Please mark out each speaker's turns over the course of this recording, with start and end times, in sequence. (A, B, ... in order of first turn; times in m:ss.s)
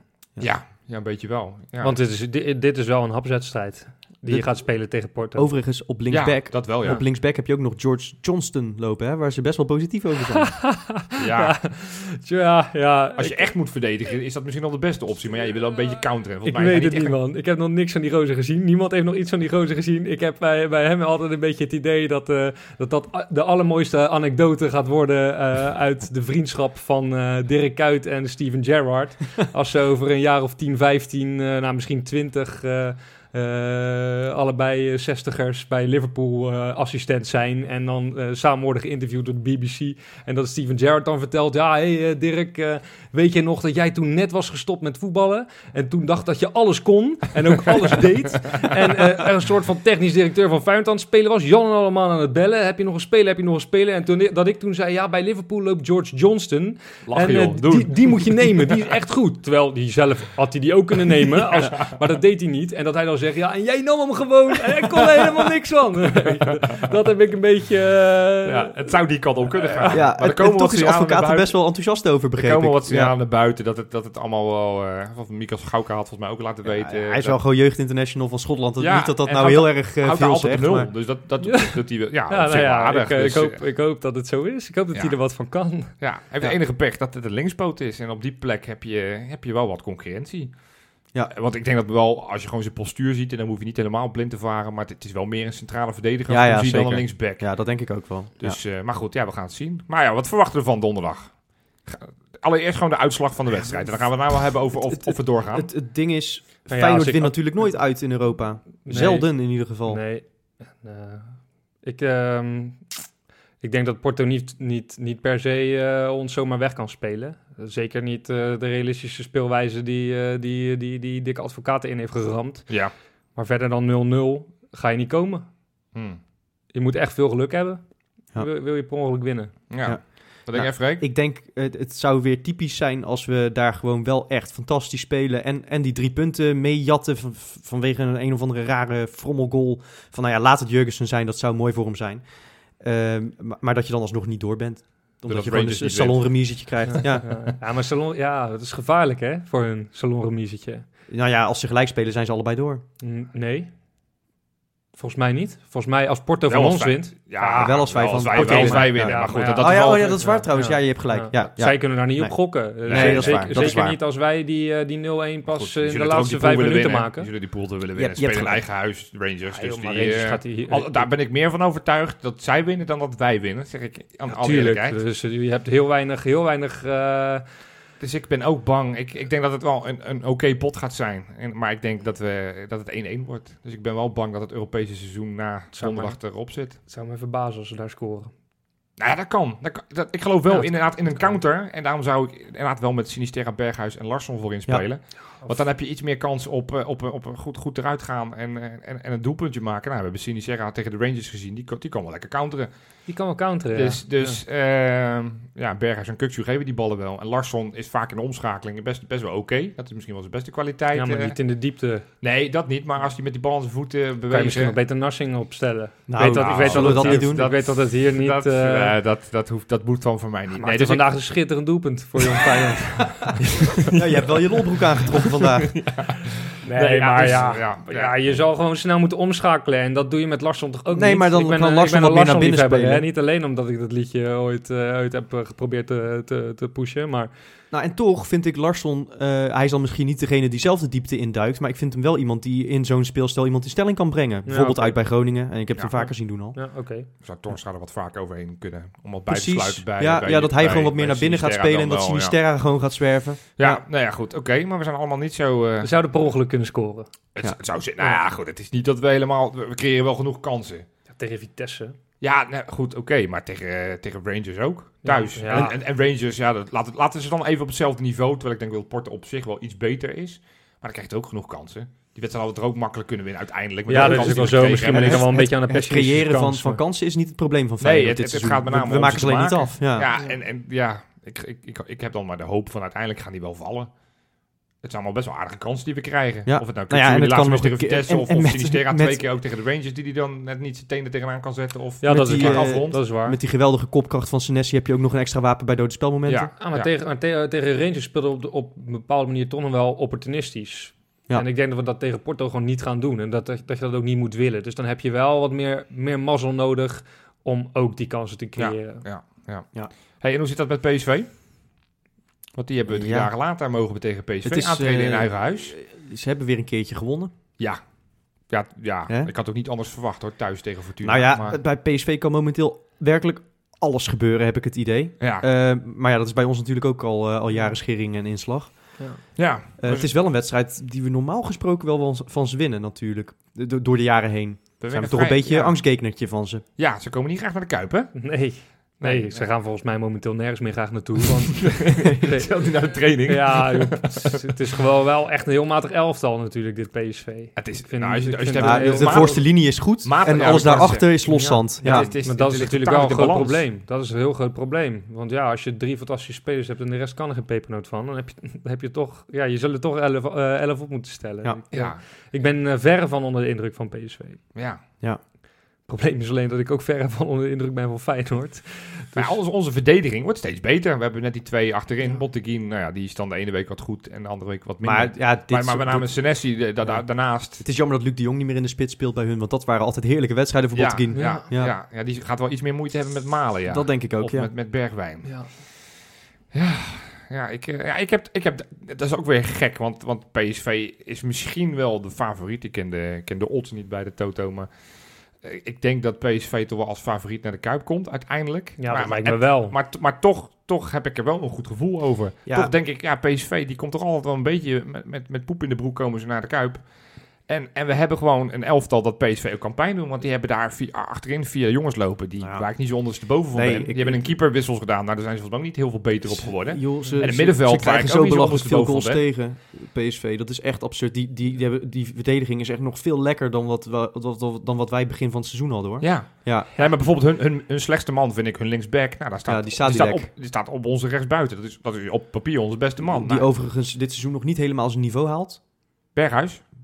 0:00.4-0:02.0 A
0:01.8-0:05.5 B
0:05.3-0:10.5 C
0:06.1-0:07.0 A
0:10.3-0:13.5 B
0:11.2-0:11.6 A
0:13.2-0:17.2 A
0:16.4-1:08.7 B
0:57.1-0:58.6 A
1:08.4-1:11.6 A
1:09.9-1:13.1 C
1:12.4-1:17.4 A
1:16.6-1:20.9 C
1:18.8-1:23.6 A
1:21.4-1:21.8 B
1:22.3-1:25.9 B
1:26.0-1:30.5 A
1:31.3-1:37.5 A
1:36.3-1:38.6 C
1:38.4-1:41.3 A
1:41.8-1:45.7 A
1:44.8-1:50.0 C
1:46.7-1:47.7 B
1:48.8-1:52.8 B
1:53.6-2:02.7 B
2:03.3-2:05.5 B
2:05.9-2:06.2 A
2:06.7-2:07.8 B
2:08.4-2:09.5 B
2:09.7-2:11.0 A
2:09.8-2:22.2 C
2:22.8-2:27.3 C
2:25.2-2:26.5 A
2:26.9-2:30.8 B
2:31.1-2:32.8 C
2:33.0-2:33.7 B
2:35.0-2:47.3 B
2:36.5-2:40.3 A
2:37.6-2:44.0 C
2:42.8-2:43.8 A
2:45.5-2:55.0 A
2:48.0-2:48.6 C
2:49.5-2:51.1 B
2:54.3-2:57.4 B
2:58.0-3:06.8 A
3:05.7-3:06.2 B
3:06.8-3:08.3 B
3:09.0-3:22.7 A
3:10.5-3:11.4 B
3:23.1-3:24.4 B
3:23.7-3:31.4 A
3:30.9-3:32.0 B
3:32.2-3:34.7 A
3:34.3-3:39.0 B
3:36.1-3:37.5 C
3:36.3-3:41.1 A
3:40.5-3:43.4 B
3:43.5-3:44.2 A
3:43.9-3:45.8 C
3:45.4-3:48.4 A
3:46.6-3:57.3 B
3:50.9-3:53.0 C
3:57.7-4:06.6 C
4:04.4-4:05.0 B
4:06.0-4:07.1 B
4:07.2-4:12.4 A
4:09.3-4:13.8 C
4:13.6-4:15.9 A
4:15.8-4:17.1 B
4:17.3-4:20.8 A
4:21.1-4:22.0 B
4:22.2-4:35.3 A
4:25.0-4:25.7 B
4:33.9-4:36.8 B
4:34.0-4:40.1 C
4:37.8-4:43.9 A
4:44.8-4:53.0 A
4:46.4-4:49.2 C
4:52.0-4:53.4 B
4:52.1-4:56.5 C
4:56.2-4:56.9 A
4:56.6-5:09.0 B
5:08.6-5:11.3 A
5:12.6-5:15.7 A
5:12.9-5:13.3 C
5:14.4-5:17.3 C
5:18.5-5:21.6 A
5:21.0-5:29.0 C
5:25.2-5:25.4 A
5:29.4-5:30.1 A
5:29.8-5:36.6 C
5:34.8-5:35.7 A
5:36.8-5:38.3 A
5:38.2-5:42.5 B
5:39.0-5:39.5 A
5:41.6-5:44.4 A
5:43.2-5:49.4 B
5:47.6-5:53.6 A
5:48.6-5:52.1 C
5:51.2-6:04.4 B
6:01.7-6:02.0 A
6:04.5-6:04.8 A
6:05.8-6:09.4 B
6:09.1-6:17.6 A
6:14.8-6:16.2 C
6:17.6-6:21.7 C
6:20.7-6:25.6 A
6:21.1-6:21.4 B
6:23.7-6:24.5 C
6:25.2-6:25.5 B
6:26.5-6:34.7 A
6:35.4-6:46.8 A
6:38.8-6:39.8 B
6:42.5-6:42.7 C
6:47.5-6:59.2 A
6:52.4-6:52.7 C
6:53.5-6:54.3 C
6:56.2-7:06.7 C
7:06.0-7:13.5 A
7:09.4-7:10.3 C
7:13.0-7:15.6 C
7:16.1-7:16.6 A